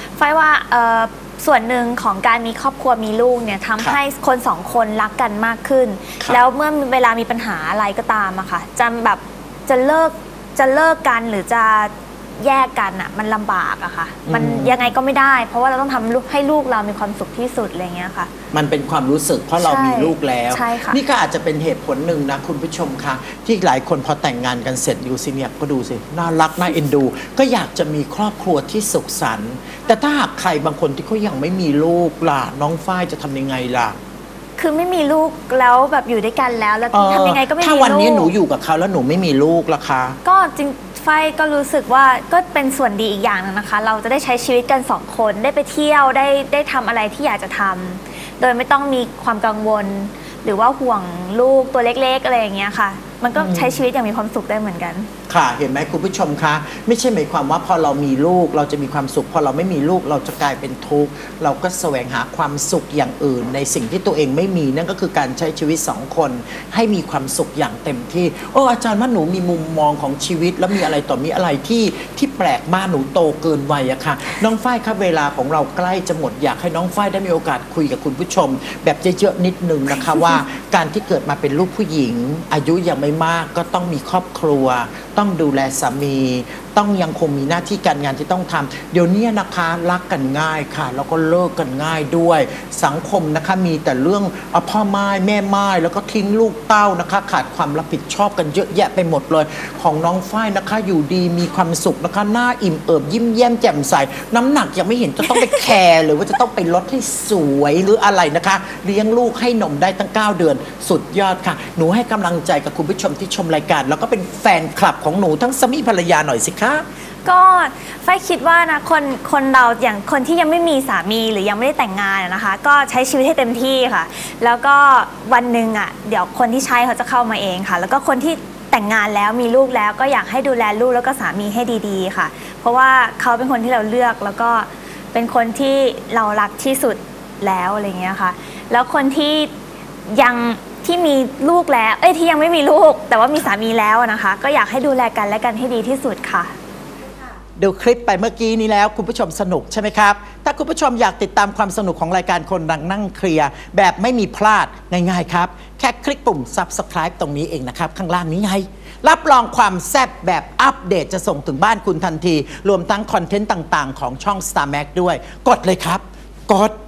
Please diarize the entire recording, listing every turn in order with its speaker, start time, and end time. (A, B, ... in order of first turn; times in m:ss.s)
0:00.2-0:18.3 A
0:14.2-0:14.8 B
0:18.5-0:34.0 B
0:19.6-0:21.0 A
0:34.6-0:38.3 A
0:36.9-0:40.2 B
0:40.2-0:55.1 A
0:53.3-0:53.8 B
0:55.3-1:56.8 B
1:57.2-2:19.5 A
2:20.1-2:26.5 A
2:27.6-2:46.7 B